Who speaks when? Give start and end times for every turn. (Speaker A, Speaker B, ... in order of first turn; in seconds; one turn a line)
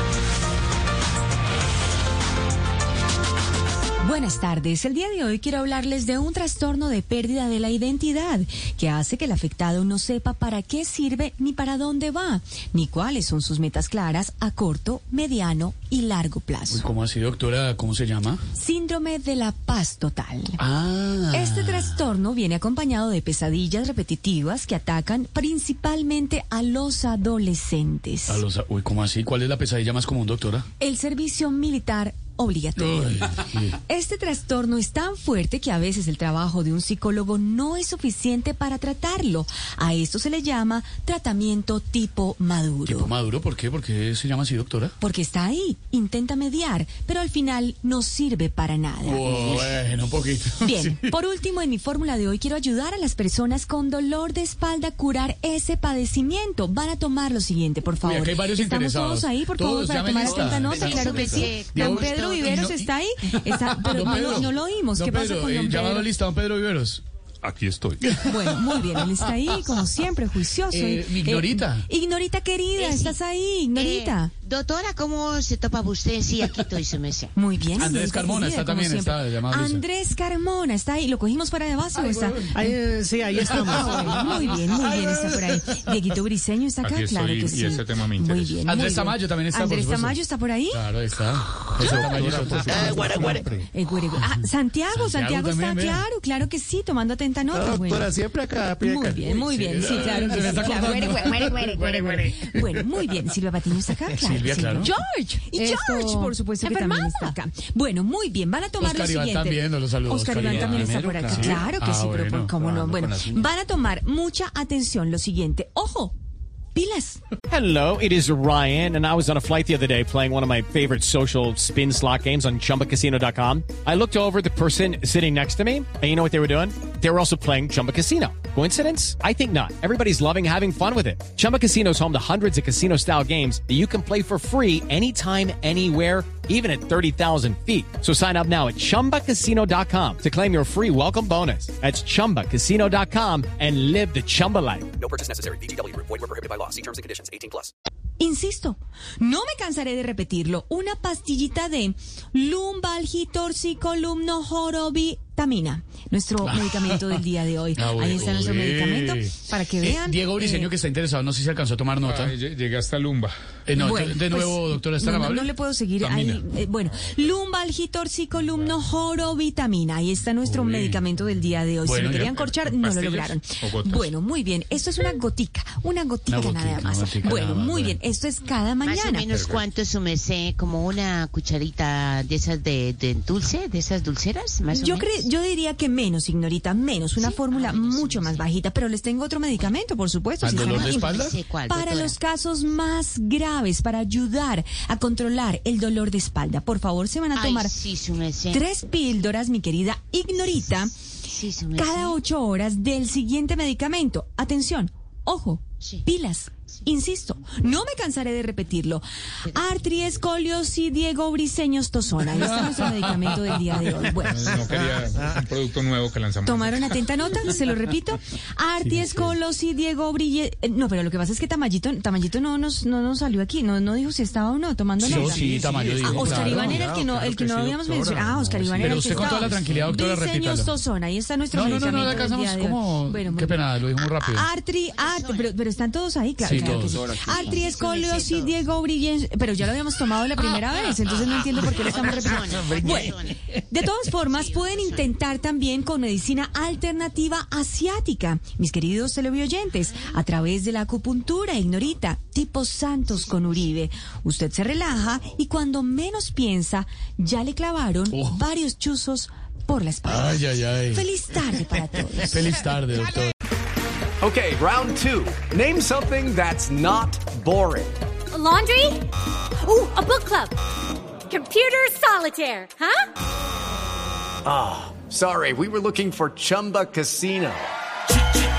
Speaker A: 4.0-16.9
Speaker B: 16.7-18.4
Speaker A: 18.5-20.6
Speaker B: 20.6-22.0
Speaker A: 21.3-28.4
Speaker B: 28.3-30.7
Speaker A: 30.8-43.1
Speaker B: 32.8-33.8
Speaker B: 42.9-45.0
Speaker A: 45.0-49.3
Speaker B: 49.0-51.1
Speaker A: 50.6-66.1
Speaker B: 58.0-62.9
Speaker C: 60.2-62.7
Speaker B: 63.5-67.0
Speaker D: 67.4-68.1
Speaker B: 68.0-69.1
Speaker A: 68.2-74.3
Speaker B: 70.7-71.9
Speaker C: 72.8-73.2
Speaker C: 73.8-77.3
Speaker A: 77.3-82.8
Speaker B: 77.8-79.8
Speaker B: 81.9-82.7
Speaker E: 82.5-84.5
Speaker A: 83.3-90.8
Speaker B: 83.4-85.5
Speaker D: 86.8-88.6
Speaker B: 88.6-93.4
Speaker E: 91.8-93.7
Speaker A: 93.2-98.2
Speaker B: 94.9-96.1
Speaker E: 97.5-102.5
Speaker A: 98.8-116.2
Speaker B: 99.8-102.0
Speaker B: 104.1-105.0
Speaker F: 106.5-107.3
Speaker B: 108.8-112.6
Speaker E: 110.4-111.5
Speaker A: 116.7-117.2
Speaker G: 117.5-144.9
Speaker H: 145.0-147.7
Speaker A: 148.2-160.7
Speaker B: 156.4-162.3
Speaker D: 162.0-163.3
Speaker B: 163.7-165.5
Speaker A: 163.8-179.3
Speaker D: 166.0-166.5
Speaker B: 170.4-171.0
Speaker B: 171.8-172.2
Speaker D: 172.0-174.1
Speaker B: 176.3-178.0
Speaker C: 178.8-185.3
Speaker D: 179.3-179.7
Speaker A: 184.7-190.9
Speaker C: 187.2-188.4
Speaker B: 190.4-191.4
Speaker C: 190.5-192.2
Speaker A: 191.7-197.8
Speaker C: 197.3-198.6
Speaker A: 198.5-201.1
Speaker C: 201.3-202.2
Speaker A: 201.7-214.5
Speaker B: 212.4-214.1
Speaker D: 214.3-217.1
Speaker A: 216.4-262.5
Speaker B: 218.8-219.3
Speaker B: 225.0-226.9
Speaker E: 225.0-229.7
Speaker B: 228.8-230.7
Speaker B: 231.5-234.5
Speaker C: 234.9-235.5
Speaker B: 236.4-237.1
Speaker C: 236.5-238.6
Speaker C: 241.1-243.4
Speaker C: 244.1-245.1
Speaker B: 258.1-258.4
Speaker B: 260.1-261.1
Speaker B: 262.2-263.3
Speaker I: 264.2-268.0
Speaker F: 268.3-269.1
Speaker F: 269.6-270.6
Speaker F: 271.3-273.1
Speaker I: 274.4-277.7